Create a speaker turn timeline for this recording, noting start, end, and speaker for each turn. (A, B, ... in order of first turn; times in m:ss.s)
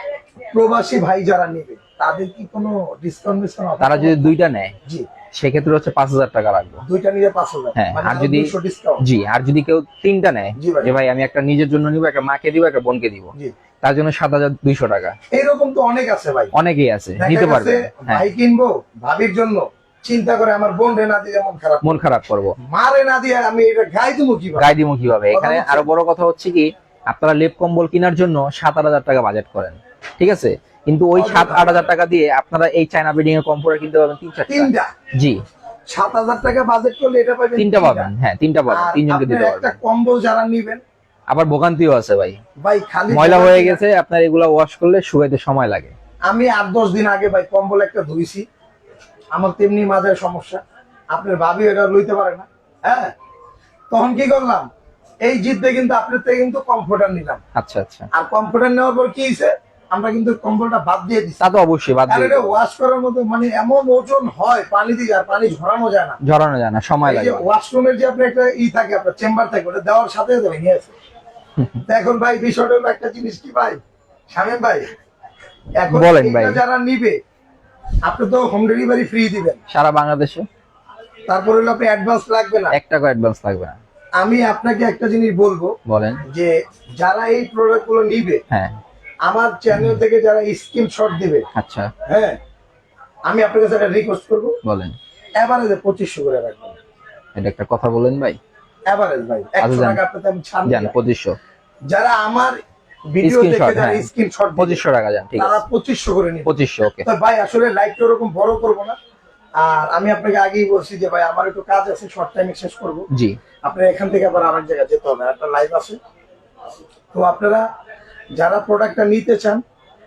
0:00.5-0:04.3 A
0:03.8-0:04.7 B
0:05.3-0:06.8 B
0:06.8-0:09.0 A
0:07.8-0:13.3 B
0:10.6-0:10.9 A
0:13.8-0:15.1 B
0:15.3-0:16.5 A
0:16.5-0:18.2 B
0:17.2-0:22.0 A
0:21.8-0:22.5 B
0:22.6-0:24.7 A
0:24.6-0:35.4 B
0:25.3-0:25.9 A
0:31.1-0:31.9 A
0:34.5-0:34.9 A
0:35.9-0:38.1 A
0:37.6-0:39.8 B
0:38.7-0:40.8 A
0:41.3-0:42.4 B
0:42.6-0:43.8 A
0:43.1-0:45.9 B
0:46.3-0:48.4 A
0:49.3-0:50.6 A
0:51.1-0:53.1 A
0:53.9-0:54.7 A
0:55.2-0:57.4 A
0:57.5-0:58.1 B
0:58.1-1:01.4 A
1:01.4-1:02.5 B
1:02.1-1:06.2 A
1:06.2-1:07.4 B
1:07.0-1:10.9 A
1:11.9-1:13.8 A
1:14.3-1:14.9 A
1:15.8-1:17.2 A
1:15.9-1:16.6 B
1:18.0-1:19.6 A
1:19.7-1:20.4 B
1:21.3-1:22.8 A
1:22.7-1:23.8 B
1:24.2-1:25.7 A
1:25.9-1:26.2 B
1:26.2-1:28.4 A
1:28.5-1:28.8 B
1:29.2-1:31.4 A
1:31.5-1:31.9 B
1:32.0-1:32.4 A
1:33.3-1:34.5 A
1:34.6-1:34.9 B
1:35.4-1:36.8 A
1:37.4-1:38.4 B
1:38.9-1:40.9 A
1:39.6-1:40.0 B
1:40.7-1:41.4 B
1:41.9-1:42.6 A
1:43.1-1:44.8 A
1:43.2-1:45.6 B
1:45.4-1:49.0 A
1:46.4-1:47.0 B
1:49.6-1:53.1 A
1:53.1-1:53.4 B
1:53.6-1:56.0 A
1:57.1-1:57.6 A
1:58.4-1:59.6 A